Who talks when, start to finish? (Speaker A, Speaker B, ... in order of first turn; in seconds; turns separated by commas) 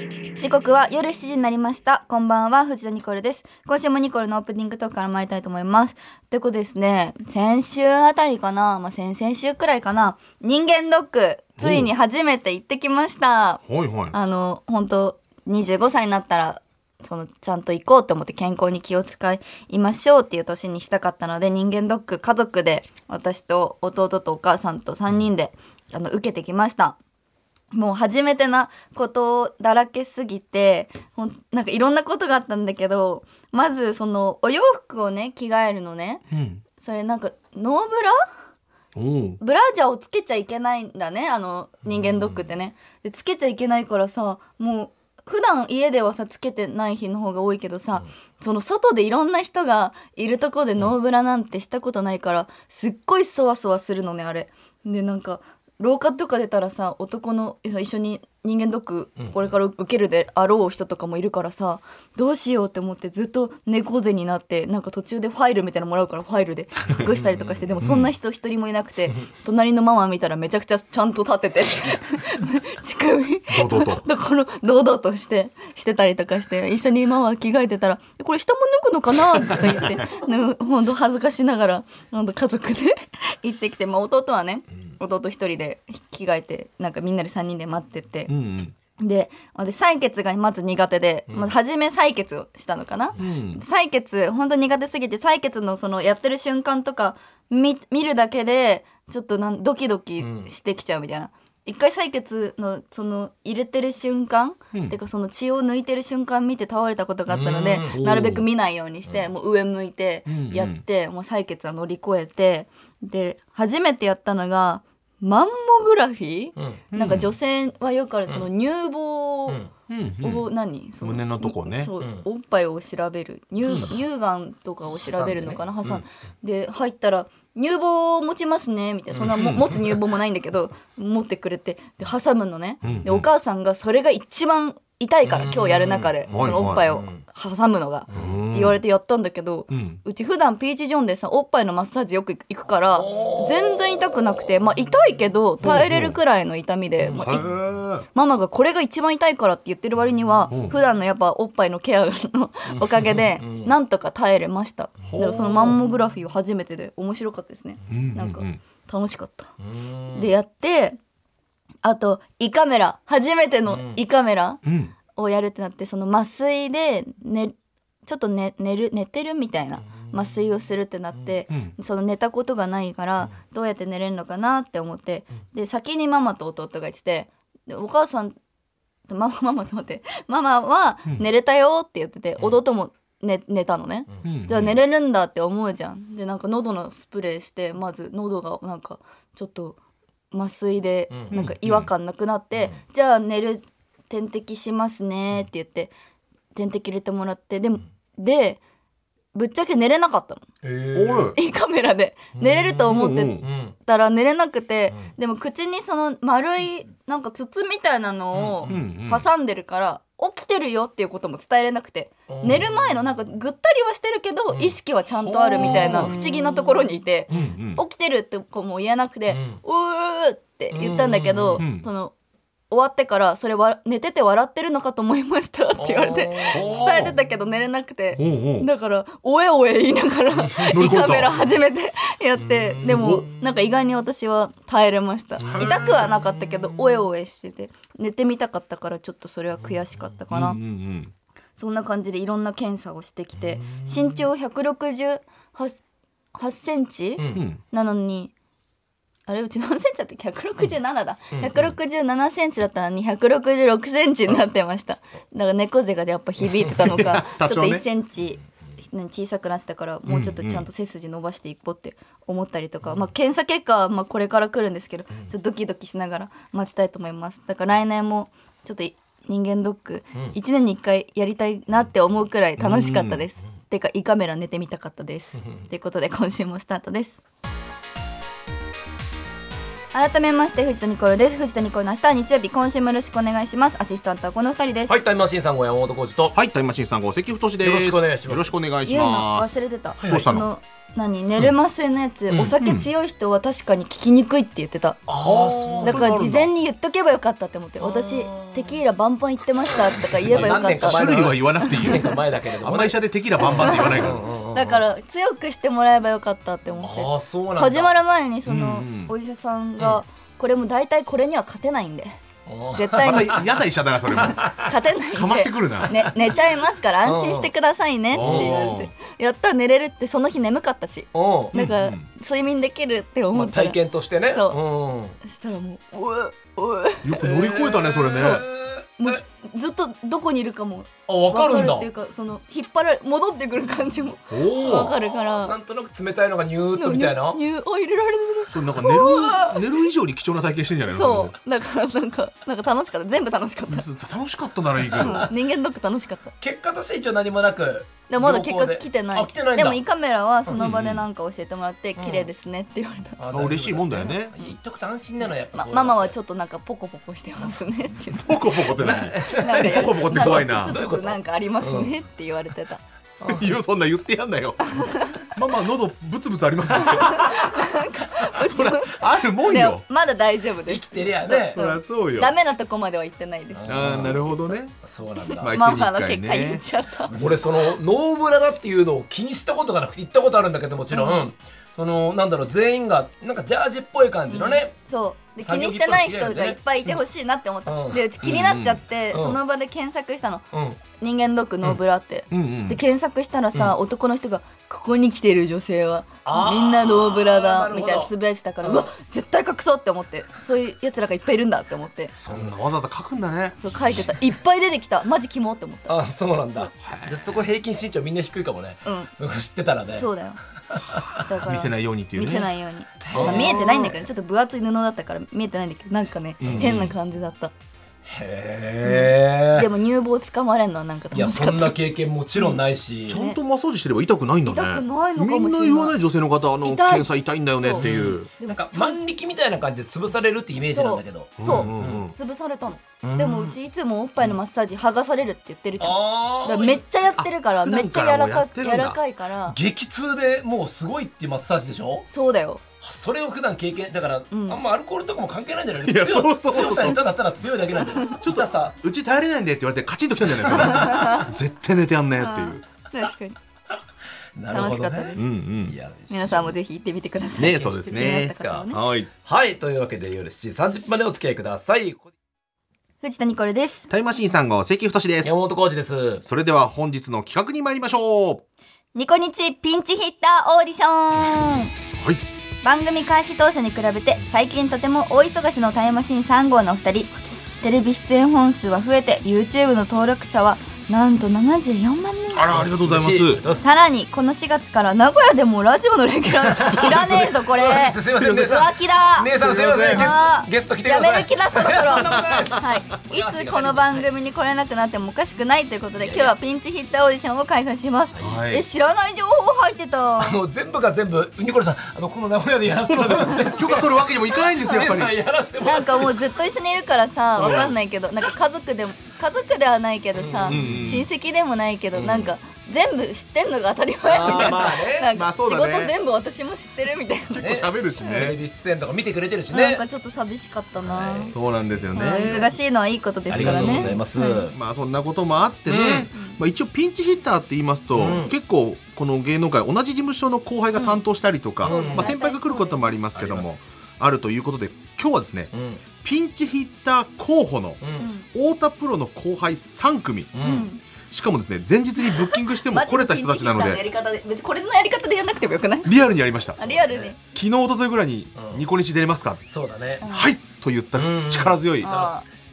Speaker A: 0.4-27.0, Speaker B: 11.6-11.9, Speaker B: 13.7-14.2, Speaker A: 27.7-36.2, Speaker B: 36.3-36.6, Speaker A: 36.8-38.2, Speaker B: 39.0-39.4, Speaker A: 39.4-88.3, Speaker C: 41.9-42.4, Speaker C: 67.1-68.0, Speaker B: 67.8-68.1, Speaker B: 73.5-74.0, Speaker B: 88.3-88.7, Speaker A: 89.0-119.6, Speaker B: 93.2-93.6, Speaker C: 100.2-100.5, Speaker C: 107.3-108.0, Speaker B: 107.9-108.5, Speaker B: 110.3-110.8, Speaker C: 116.6-116.8, Speaker B: 116.9-117.3, Speaker B: 119.9-120.5, Speaker A: 120.2-147.4, Speaker B: 121.0-121.9, Speaker C: 122.0-122.2, Speaker B: 123.7-123.9, Speaker C: 124.9-126.0, Speaker C: 129.1-129.8, Speaker B: 129.4-129.7, Speaker B: 132.8-133.3, Speaker C: 135.3-137.2, Speaker B: 136.3-136.9, Speaker C: 138.1-138.3, Speaker B: 138.1-138.8, Speaker B: 139.7-140.0, Speaker C: 143.0-143.8, Speaker B: 145.6-146.2, Speaker C: 147.0-147.5, Speaker B: 147.1-148.1, Speaker A: 148.1-159.5, Speaker B: 150.5-150.8, Speaker C: 152.7-153.8, Speaker B: 155.1-155.8, Speaker B: 157.9-158.6, Speaker C: 159.6-160.3, Speaker A: 160.1-161.0, Speaker A: 161.8-167.5, Speaker C: 163.7-164.0, Speaker B: 164.7-164.9, Speaker A: 168.1-178.4, Speaker C: 169.9-170.4, Speaker A: 179.1-189.8, Speaker B: 184.2-184.8, Speaker A: 190.3-195.9, Speaker C: 191.1-191.4, Speaker B: 191.3-191.9, Speaker A: 196.5-198.6, Speaker A: 199.3-200.4, Speaker C: 200.6-201.4, Speaker B: 200.9-201.4, Speaker A: 201.3-222.1, Speaker C: 202.4-203.8, Speaker B: 202.8-203.5, Speaker C: 208.3-208.8, Speaker B: 208.7-209.3, Speaker C: 212.3-212.8, Speaker B: 215.2-216.3, Speaker C: 215.6-216.2, Speaker C: 217.3-217.6, Speaker B: 217.3-217.8, Speaker C: 219.3-219.6, Speaker C: 220.7-221.7, Speaker B: 221.6-221.9, Speaker A: 222.7-240.6, Speaker C: 225.8-227.1, Speaker B: 226.5-227.2, Speaker B: 228.2-228.7, Speaker B: 230.6-231.5, Speaker C: 232.4-233.3, Speaker B: 232.8-233.3, Speaker C: 235.4-236.1, Speaker B: 235.4-236.5, Speaker B: 240.3-241.1, Speaker A: 241.6-245.8, Speaker C: 243.4-244.3, Speaker A: 246.3-248.3, Speaker C: 247.2-247.5, Speaker B: 247.3-247.6, Speaker A: 249.3-277.2, Speaker C: 251.3-251.8, Speaker B: 256.8-257.9, Speaker B: 260.1-260.7, Speaker B: 272.6-273.2, Speaker C: 275.4-275.7, Speaker A: 279.9-285.0, Speaker C: 284.9-286.4, Speaker B: 286.3-289.5, Speaker C: 287.6-288.6, Speaker A: 288.9-295.0, Speaker B: 290.0-290.5, Speaker B: 292.3-292.9, Speaker C: 295.1-296.2, Speaker B: 295.2-296.5, Speaker A: 295.8-301.0, Speaker C: 297.8-298.8, Speaker C: 300.1-304.8, Speaker B: 300.3-304.2, Speaker A: 303.4-312.2, Speaker C: 306.8-307.9, Speaker B: 308.5-309.1, Speaker C: 312.5-313.5, Speaker A: 312.7-313.4, Speaker B: 313.0-316.1, Speaker C: 314.1-314.7, Speaker A: 314.3-323.8, Speaker C: 315.9-316.4, Speaker C: 317.0-317.5, Speaker B: 318.1-318.9, Speaker C: 318.2-318.5, Speaker C: 321.1-321.6, Speaker B: 321.5-322.1, Speaker C: 323.3-325.2, Speaker A: 324.3-324.6, Speaker A: 325.2-327.1, Speaker B: 327.0-328.5, Speaker C: 327.2-329.2, Speaker A: 328.1-328.4, Speaker A: 329.0-335.6, Speaker C: 331.1-331.9, Speaker B: 334.3-334.9, Speaker C: 334.5-337.4, Speaker A: 336.8-339.4, Speaker B: 338.5-341.4, Speaker C: 339.0-339.6, Speaker A: 340.9-343.9, Speaker B: 343.7-345.3, Speaker C: 344.8-345.3, Speaker A: 345.0-346.3, Speaker C: 346.4-349.8, Speaker A: 348.1-353.2, Speaker B: 350.6-351.0, Speaker C: 352.0-352.3, Speaker C: 353.2-356.1, Speaker B: 353.3-354.3, Speaker A: 354.0-354.6, Speaker A: 355.6-362.8, Speaker B: 358.1-360.8, Speaker C: 358.8-361.9, Speaker C: 363.2-363.5, Speaker B: 363.3-367.5, Speaker A: 364.7-365.2, Speaker A: 367.1-374.6, Speaker B: 368.3-369.9, Speaker C: 370.7-371.6, Speaker B: 371.5-372.4, Speaker C: 373.5-374.2, Speaker B: 373.7-374.8, Speaker C: 374.8-375.5, Speaker B: 375.4-376.6, Speaker A: 375.5-377.1, Speaker C: 377.1-384.8, Speaker A: 380.9-381.2, Speaker A: 384.3-402.1, Speaker C: 385.4-387.0, Speaker C: 387.7-388.5, Speaker B: 388.2-388.8, Speaker C: 389.1-389.4, Speaker C: 390.5-390.8, Speaker B: 392.3-392.8, Speaker C: 396.2-398.9, Speaker B: 402.2-404.0, Speaker C: 402.3-402.5, Speaker A: 403.6-406.0, Speaker C: 405.9-410.1, Speaker B: 406.8-407.3, Speaker A: 408.9-409.1, Speaker A: 409.9-410.4, Speaker C: 410.7-411.1, Speaker A: 411.2-417.5, Speaker B: 411.3-412.5, Speaker C: 413.1-414.0, Speaker B: 413.1-413.6, Speaker B: 416.4-416.9, Speaker C: 416.4-416.9, Speaker C: 418.1-419.7, Speaker A: 418.8-421.8, Speaker C: 421.1-423.2, Speaker A: 422.4-422.6, Speaker B: 423.1-428.3, Speaker A: 423.1-423.4, Speaker A: 424.4-425.9, Speaker A: 426.6-427.9, Speaker C: 427.8-432.1, Speaker A: 428.4-429.0, Speaker A: 430.7-439.6, Speaker B: 431.4-432.1, Speaker B: 433.0-433.6, Speaker C: 435.8-436.8, Speaker B: 437.2-439.0, Speaker C: 439.5-442.1, Speaker A: 442.1-442.6, Speaker C: 442.8-448.8, Speaker A: 444.3-444.6, Speaker B: 445.8-447.1, Speaker B: 448.2-452.6, Speaker C: 450.4-451.2, Speaker A: 450.6-451.3, Speaker A: 452.2-453.4, Speaker C: 454.4-456.5, Speaker A: 454.5-455.2, Speaker B: 455.2-455.8, Speaker A: 456.1-458.8, Speaker B: 457.4-459.1, Speaker C: 458.4-458.7, Speaker C: 459.2-462.1, Speaker A: 463.0-463.9, Speaker B: 463.9-465.4, Speaker C: 465.2-466.2, Speaker B: 466.2-468.4, Speaker A: 468.9-471.7, Speaker A: 472.6-482.5, Speaker B: 482.3-483.4, Speaker C: 482.4-483.7, Speaker A: 483.6-489.3, Speaker C: 486.4-494.1, Speaker B: 486.8-487.4, Speaker B: 488.0-488.6, Speaker B: 489.3-490.2, Speaker A: 489.9-500.4, Speaker B: 492.0-492.6, Speaker C: 496.0-496.3, Speaker C: 498.1-498.4, Speaker B: 498.2-498.6, Speaker C: 500.2-506.2, Speaker B: 502.7-505.2, Speaker A: 505.6-518.3, Speaker C: 510.1-511.0, Speaker B: 510.5-511.1, Speaker C: 511.9-512.3, Speaker C: 514.1-515.1, Speaker B: 514.3-515.9, Speaker B: 517.3-518.4, Speaker C: 517.4-519.8, Speaker A: 519.5-521.4, Speaker C: 520.8-521.4, Speaker B: 521.3-522.5, Speaker A: 521.9-524.5, Speaker C: 522.0-522.5, Speaker C: 523.3-524.6, Speaker B: 523.3-543.8, Speaker C: 525.7-526.1, Speaker C: 528.0-528.3, Speaker A: 530.8-531.0, Speaker C: 531.6-532.1, Speaker A: 531.6-532.9, Speaker C: 533.1-533.6, Speaker C: 535.5-535.8, Speaker C: 537.8-538.1, Speaker A: 538.0-538.3, Speaker C: 540.3-540.7, Speaker A: 540.4-540.8, Speaker A: 542.2-546.0, Speaker B: 545.8-546.7, Speaker A: 546.6-547.2, Speaker C: 546.6-547.1, Speaker B: 547.2-549.4, Speaker C: 548.4-548.6, Speaker C: 549.5-550.1, Speaker A: 550.0-550.3, Speaker B: 550.0-551.9, Speaker C: 550.9-552.1, Speaker A: 551.8-552.2